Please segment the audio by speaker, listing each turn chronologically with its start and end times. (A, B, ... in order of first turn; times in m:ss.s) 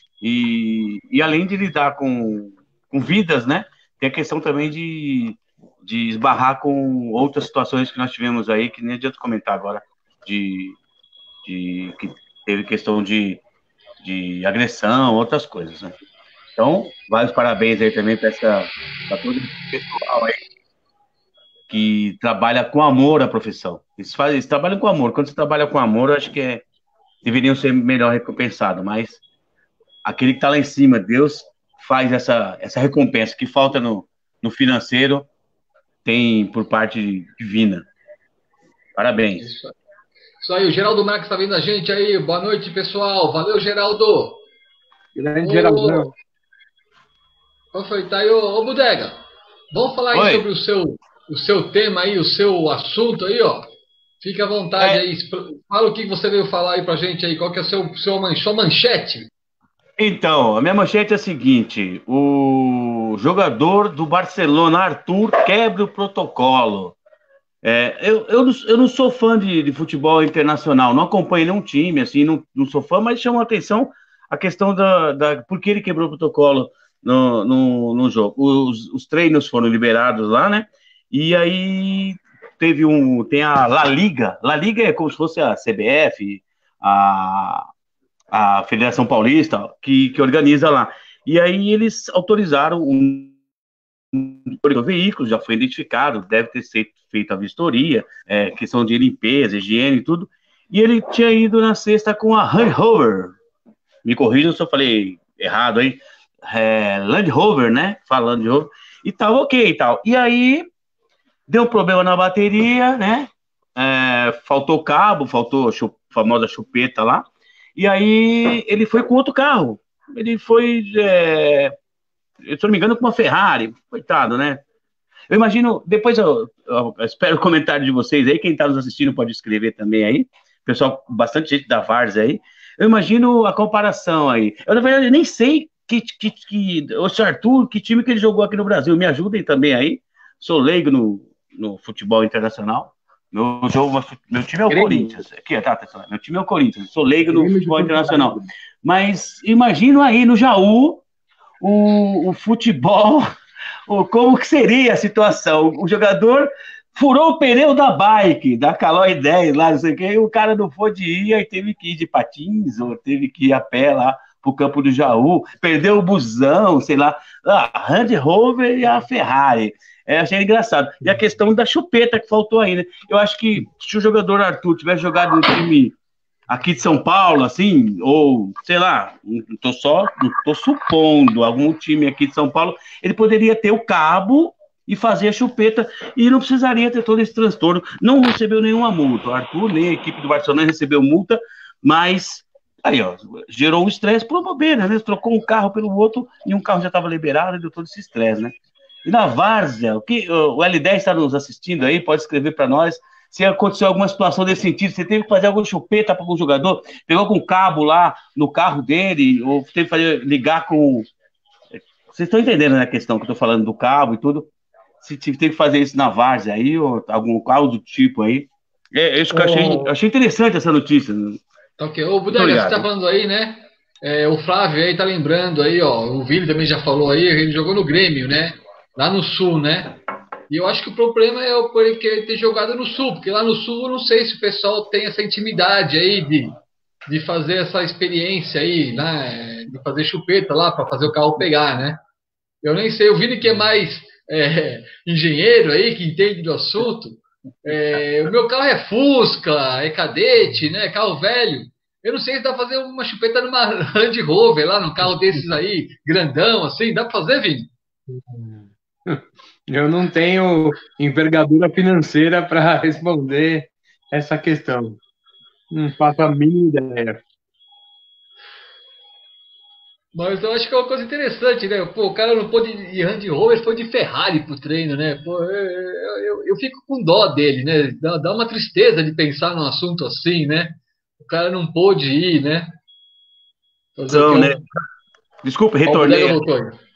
0:00.2-0:10.8 A
0:11.4-0:13.4 A
0:14.0-0:15.9 A
0:16.6-0:20.4 A
0:21.7-0:26.6 A
0:27.2-0:29.2 A
0:30.0-0:35.3 A
0:36.0-0:37.9 A
0:39.0-0:39.4 A
0:39.4-0:39.7 B
0:40.4-0:44.4 B
0:45.1-0:46.1 C
0:45.4-0:46.1 B
0:47.7-0:49.2 B
0:49.7-0:53.6 B
0:50.1-0:50.4 A
0:54.2-0:59.3 B
1:00.0-1:07.0 A
1:07.6-1:27.7 A
1:28.3-1:33.3 A
1:34.1-1:43.3 A
1:44.0-1:50.7 A
1:51.5-1:57.2 A
1:57.8-2:01.7 A
2:02.5-2:04.6 A
2:05.3-2:31.0 A
2:24.7-2:25.2 C
2:27.3-2:28.4 C
2:31.6-2:33.3 A
2:33.9-2:56.0 A
2:56.5-3:18.5 A
3:19.0-3:31.1 A
3:32.1-3:34.5 A
3:35.0-3:41.4 A
3:39.3-3:39.9 B
3:41.8-3:50.0 B
3:42.3-3:42.9 A
3:50.5-4:02.0 B
4:02.6-4:17.7 B
4:19.1-4:25.0 C
4:25.7-4:27.2 C
4:30.1-4:42.7 B
4:44.0-4:44.6 B
4:44.1-4:44.6 A
4:45.4-4:46.4 A
4:45.8-4:46.7 B